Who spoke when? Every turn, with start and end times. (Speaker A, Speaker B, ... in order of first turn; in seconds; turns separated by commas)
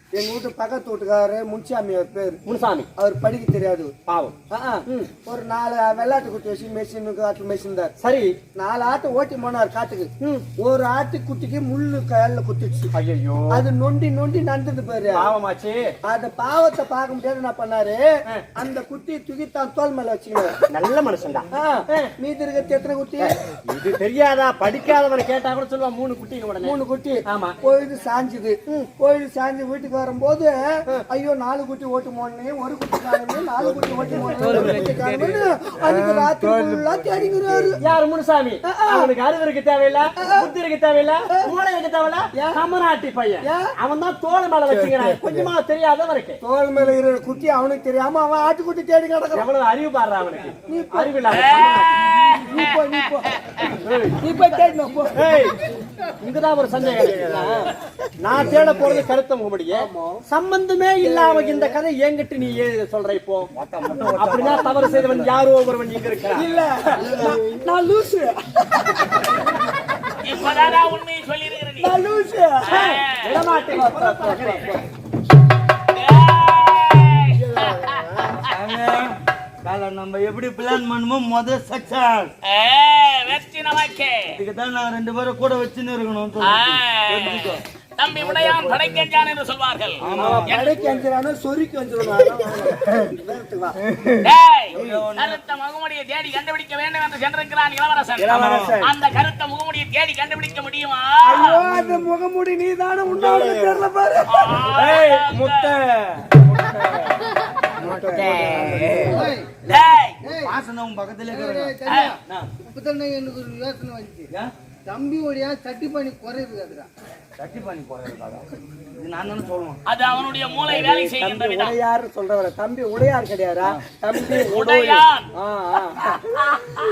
Speaker A: 0.1-2.4, Speaker B: 2.5-2.9, Speaker A: 3.0-3.9, Speaker B: 4.1-5.1, Speaker A: 4.5-7.9, Speaker B: 8.0-8.4, Speaker A: 8.5-12.9, Speaker B: 10.2-10.5, Speaker B: 12.9-13.6, Speaker A: 13.5-15.3, Speaker B: 15.1-15.9, Speaker A: 16.0-20.6, Speaker B: 20.7-22.1, Speaker A: 21.5-23.3, Speaker B: 23.2-27.6, Speaker A: 26.6-37.8, Speaker B: 34.5-34.8, Speaker B: 37.8-46.4, Speaker A: 38.6-39.1, Speaker A: 40.2-40.5, Speaker A: 42.3-42.6, Speaker A: 43.4-43.7, Speaker A: 46.4-49.5, Speaker B: 49.3-52.1, Speaker A: 50.7-53.3, Speaker C: 51.6-52.9, Speaker B: 53.8-54.3, Speaker A: 54.2-55.3, Speaker B: 55.1-55.5, Speaker B: 56.2-66.5, Speaker A: 59.7-60.2, Speaker A: 61.0-61.8, Speaker D: 63.5-65.1, Speaker A: 64.3-65.2, Speaker A: 66.3-69.2, Speaker D: 67.0-67.4, Speaker C: 70.2-71.9, Speaker A: 71.8-73.0, Speaker C: 72.7-73.3, Speaker B: 72.7-74.8, Speaker A: 73.7-74.8, Speaker C: 76.0-77.9, Speaker D: 78.5-79.1, Speaker D: 79.6-82.3, Speaker C: 82.5-84.4, Speaker D: 84.3-87.5, Speaker C: 86.4-90.7, Speaker D: 88.3-88.6, Speaker D: 90.0-90.7, Speaker A: 90.2-93.8, Speaker C: 94.2-101.7, Speaker D: 94.7-95.4, Speaker A: 98.2-98.9, Speaker D: 98.3-98.8, Speaker A: 101.2-108.5, Speaker C: 104.3-105.8, Speaker B: 108.1-109.1, Speaker C: 108.2-109.1, Speaker E: 109.1-109.5, Speaker C: 109.7-110.2, Speaker D: 110.3-112.5, Speaker E: 111.3-112.1, Speaker C: 111.8-112.2, Speaker E: 112.7-114.2, Speaker E: 114.9-116.9, Speaker D: 117.4-119.8, Speaker C: 119.9-121.7, Speaker A: 120.7-126.4, Speaker C: 124.4-125.2